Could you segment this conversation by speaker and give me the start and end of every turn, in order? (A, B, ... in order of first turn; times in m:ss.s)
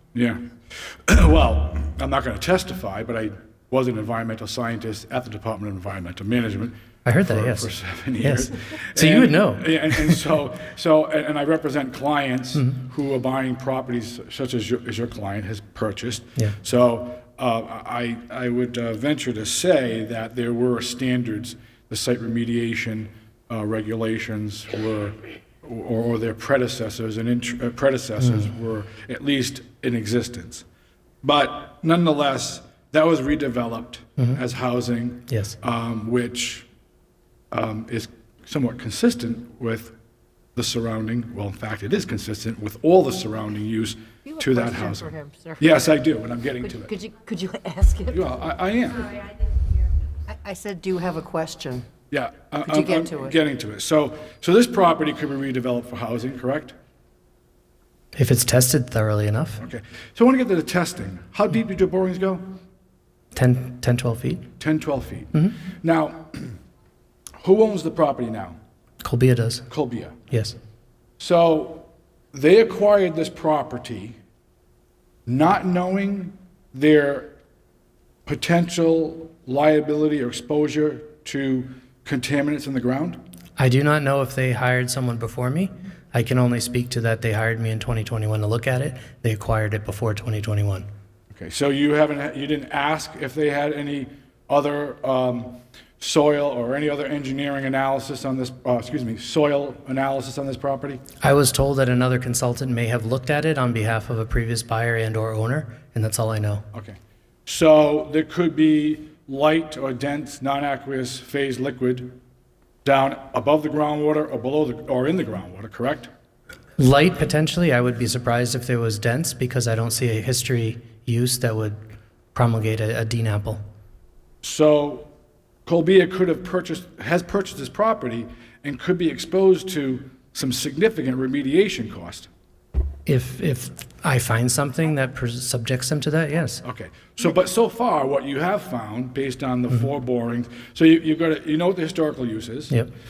0:00.1-0:30.6 A
0:07.1-0:10.4 B
0:31.2-0:36.7 A
0:35.3-0:35.6 B
0:37.5-0:39.9 A
0:40.6-0:46.9 A
0:44.2-0:45.7 C
0:46.7-0:48.2 C
0:48.1-0:49.1 A
0:50.3-0:51.9 C
0:52.1-0:56.8 A
0:52.6-0:53.4 C
0:58.2-0:59.6 B
0:59.6-1:02.4 A
1:03.3-1:04.4 B
1:04.6-1:06.6 A
1:07.4-1:08.6 A
1:09.0-1:09.6 B
1:09.7-1:10.2 A
1:10.3-1:10.6 B
1:11.2-1:14.2 A
1:15.3-1:17.3 A
1:18.3-1:23.2 A
1:23.6-1:30.8 B
1:31.3-1:41.0 A
1:41.2-1:46.6 B
1:46.7-1:52.2 A
1:52.8-1:56.1 A
1:56.8-2:01.8 B
2:02.3-2:03.6 B
2:04.4-2:05.1 A
2:05.7-2:12.3 A
2:13.1-2:16.6 B
2:16.6-2:22.8 A